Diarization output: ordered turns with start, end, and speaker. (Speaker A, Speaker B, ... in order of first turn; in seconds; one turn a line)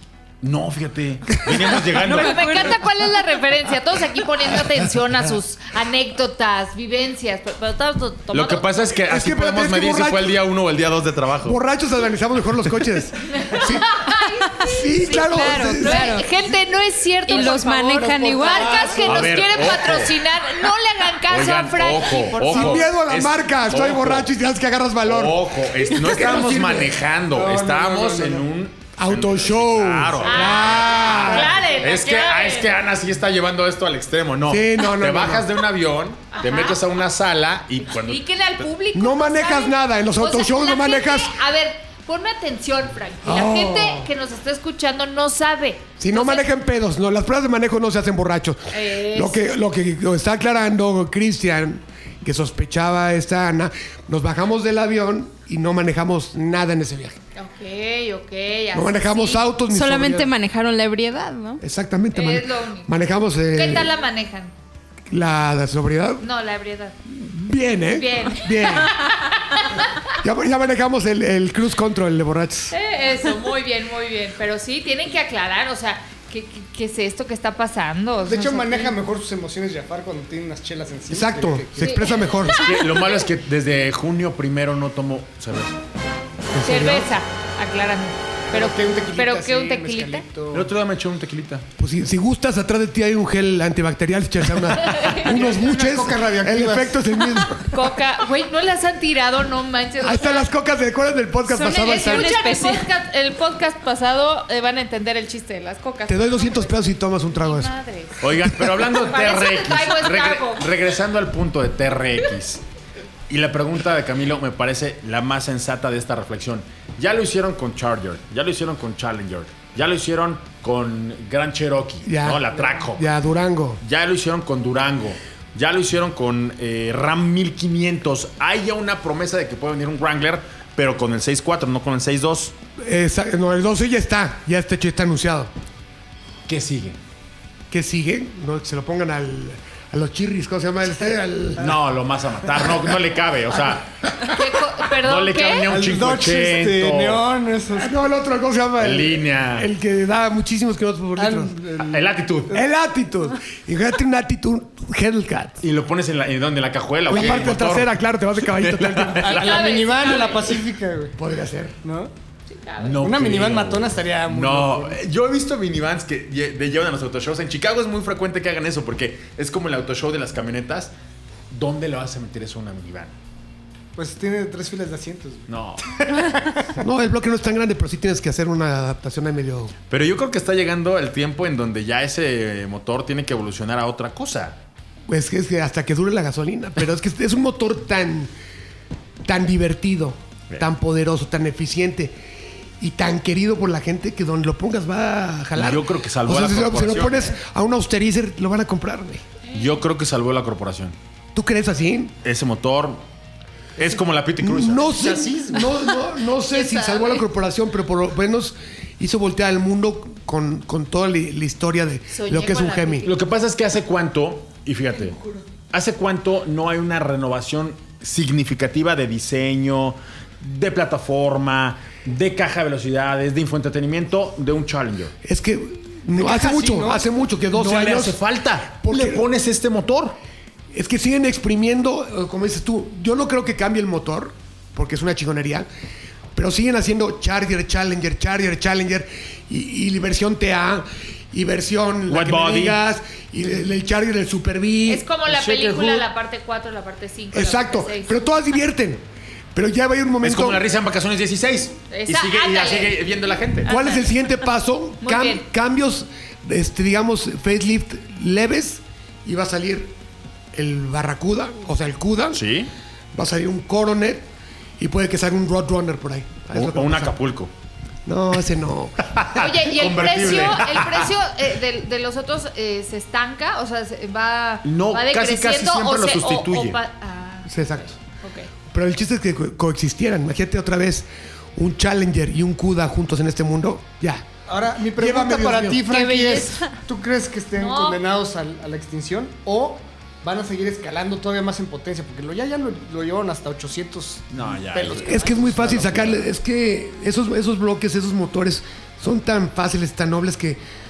Speaker A: 0.4-2.6
Speaker B: 2.0-3.1
Speaker C: 2.0-8.7
Speaker A: 8.3-11.6
Speaker D: 9.1-10.4
Speaker D: 11.4-14.0
Speaker C: 13.4-22.9
Speaker D: 14.6-16.2
Speaker B: 15.1-16.3
Speaker B: 17.3-19.0
Speaker E: 17.4-19.3
Speaker A: 19.1-20.2
Speaker A: 21.3-24.3
Speaker D: 22.4-26.9
Speaker A: 25.1-38.2
Speaker E: 26.0-28.5
Speaker D: 29.0-31.6
Speaker C: 30.2-32.7
Speaker E: 31.3-31.8
Speaker D: 34.5-35.5
Speaker C: 36.3-36.8
Speaker C: 37.8-46.5
Speaker D: 38.9-41.4
Speaker D: 43.2-44.1
Speaker D: 46.0-57.2
Speaker C: 48.7-49.5
Speaker C: 57.4-59.4
Speaker D: 58.7-60.3
Speaker B: 59.7-61.6
Speaker D: 61.6-63.9
Speaker C: 62.1-62.9
Speaker C: 63.5-64.5
Speaker D: 65.1-66.2
Speaker C: 66.2-67.0
Speaker D: 67.1-69.0
Speaker C: 67.9-70.0
Speaker D: 70.1-72.8
Speaker C: 72.7-79.0
Speaker E: 78.2-82.2
Speaker D: 81.1-82.6
Speaker C: 81.8-82.1
Speaker A: 82.6-85.8
Speaker D: 86.5-87.1
Speaker C: 86.6-90.2
Speaker E: 88.5-90.7
Speaker A: 90.5-91.7
Speaker D: 91.8-97.8
Speaker C: 94.9-95.2
Speaker E: 95.2-97.0
Speaker C: 97.6-100.5
Speaker D: 100.0-102.3
Speaker B: 101.5-102.9
Speaker C: 101.8-108.2
Speaker D: 106.1-107.7
Speaker A: 108.2-112.6
Speaker C: 109.0-110.7
Speaker A: 113.3-123.1
Speaker D: 122.0-123.8
Speaker A: 123.8-132.6
Speaker D: 132.8-135.5
Speaker A: 136.5-137.0
Speaker D: 137.7-141.8
Speaker A: 141.6-143.9
Speaker C: 144.3-145.7
Speaker A: 145.0-147.2
Speaker E: 145.7-147.9
Speaker D: 147.8-151.6
Speaker A: 148.8-149.7
Speaker E: 151.2-152.6
Speaker A: 151.8-152.5
Speaker D: 152.5-155.6
Speaker A: 155.6-159.8
Speaker D: 157.1-159.4
Speaker E: 159.2-161.2
Speaker C: 159.3-160.5
Speaker D: 161.2-161.8
Speaker E: 161.8-162.1
Speaker C: 162.5-163.0
Speaker A: 162.8-170.9
Speaker E: 163.0-165.0
Speaker A: 171.5-173.1
Speaker E: 174.0-176.6
Speaker A: 175.5-176.3
Speaker D: 176.8-179.7
Speaker A: 179.9-184.6
Speaker D: 185.1-188.3
Speaker D: 189.2-192.2
Speaker D: 192.8-199.2
Speaker A: 195.6-197.4
Speaker C: 199.5-199.8
Speaker A: 199.5-200.9
Speaker D: 201.3-202.2
Speaker A: 202.2-203.0
Speaker A: 203.8-205.2
Speaker D: 204.4-213.1
Speaker E: 205.0-205.6
Speaker C: 206.5-207.2
Speaker C: 212.1-213.2
Speaker A: 213.1-215.2
Speaker A: 215.7-225.1
Speaker D: 225.2-228.2
Speaker E: 226.2-227.1
Speaker A: 227.5-230.2
Speaker D: 228.8-229.2
Speaker D: 230.7-235.7
Speaker D: 236.3-245.1
Speaker A: 242.1-242.8
Speaker C: 244.9-248.2
Speaker A: 245.3-246.1
Speaker D: 247.3-250.6
Speaker A: 250.2-253.7
Speaker C: 251.9-253.0
Speaker D: 253.7-260.0
Speaker C: 253.7-254.1
Speaker C: 255.0-255.4
Speaker D: 260.5-262.4
Speaker A: 262.3-262.7
Speaker D: 263.1-264.3
Speaker D: 264.8-267.2
Speaker A: 266.5-267.5
Speaker D: 268.1-269.2
Speaker A: 269.1-271.1
Speaker C: 269.4-278.5
Speaker A: 274.6-276.8
Speaker D: 277.5-278.0
Speaker D: 278.7-284.3
Speaker E: 284.5-296.2
Speaker D: 284.9-286.0
Speaker B: 285.9-286.8
Speaker C: 287.6-288.0
Speaker A: 294.3-296.1
Speaker D: 295.1-300.6